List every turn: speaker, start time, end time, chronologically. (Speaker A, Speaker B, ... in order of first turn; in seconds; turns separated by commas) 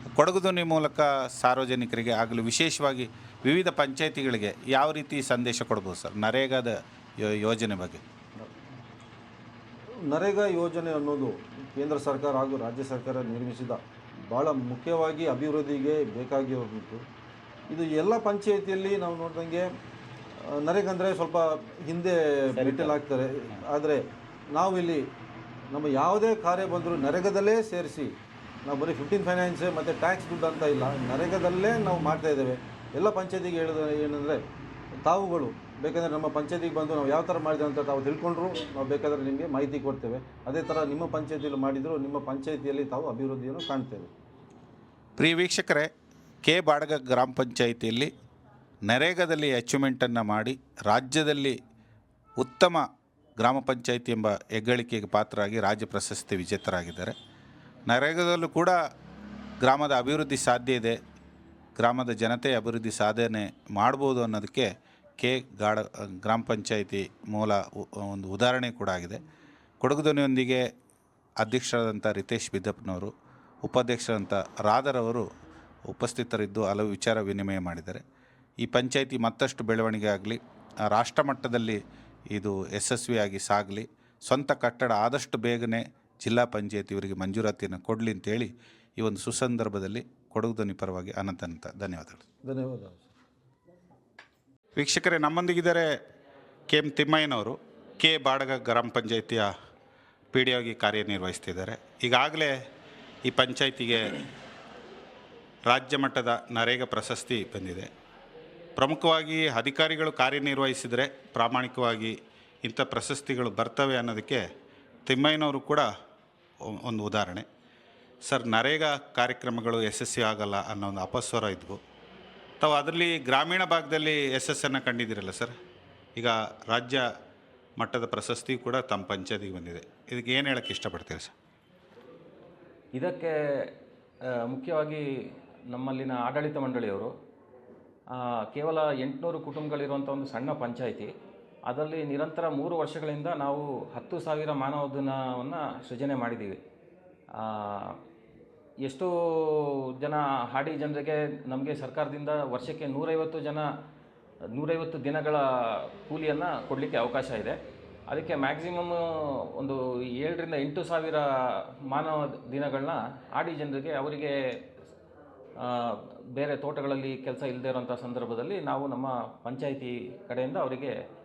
Speaker A: 0.2-8.0, Speaker B: 10.1-17.0, Speaker B: 17.7-19.6, Speaker B: 20.4-25.0, Speaker A: 22.6-22.9, Speaker B: 25.7-28.1, Speaker B: 28.6-34.4, Speaker B: 35.0-44.1, Speaker A: 45.2-45.9, Speaker A: 46.4-48.1, Speaker A: 48.9-51.5, Speaker A: 52.4-52.8, Speaker A: 53.4-57.1, Speaker A: 57.9-58.7, Speaker A: 59.6-61.0, Speaker A: 61.8-64.7, Speaker A: 65.2-69.2, Speaker A: 69.8-70.6, Speaker A: 71.4-73.1, Speaker A: 73.6-75.2, Speaker A: 75.9-78.0, Speaker A: 78.6-81.8, Speaker A: 82.3-92.2, Speaker B: 92.5-93.1, Speaker A: 94.8-95.8, Speaker A: 96.7-99.5, Speaker A: 100.3-102.5, Speaker A: 103.3-104.2, Speaker A: 105.7-107.9, Speaker A: 108.8-112.1, Speaker A: 112.7-114.4, Speaker A: 115.1-115.8, Speaker A: 116.8-117.4, Speaker A: 118.3-121.8, Speaker A: 122.6-125.5, Speaker A: 126.2-127.0, Speaker A: 127.8-131.3, Speaker C: 132.9-133.7, Speaker C: 134.3-135.0, Speaker C: 135.7-137.1, Speaker C: 138.1-141.1, Speaker C: 141.7-146.6, Speaker C: 147.3-148.0, Speaker C: 148.8-153.7, Speaker C: 154.5-157.6, Speaker C: 158.1-164.3, Speaker C: 165.6-170.9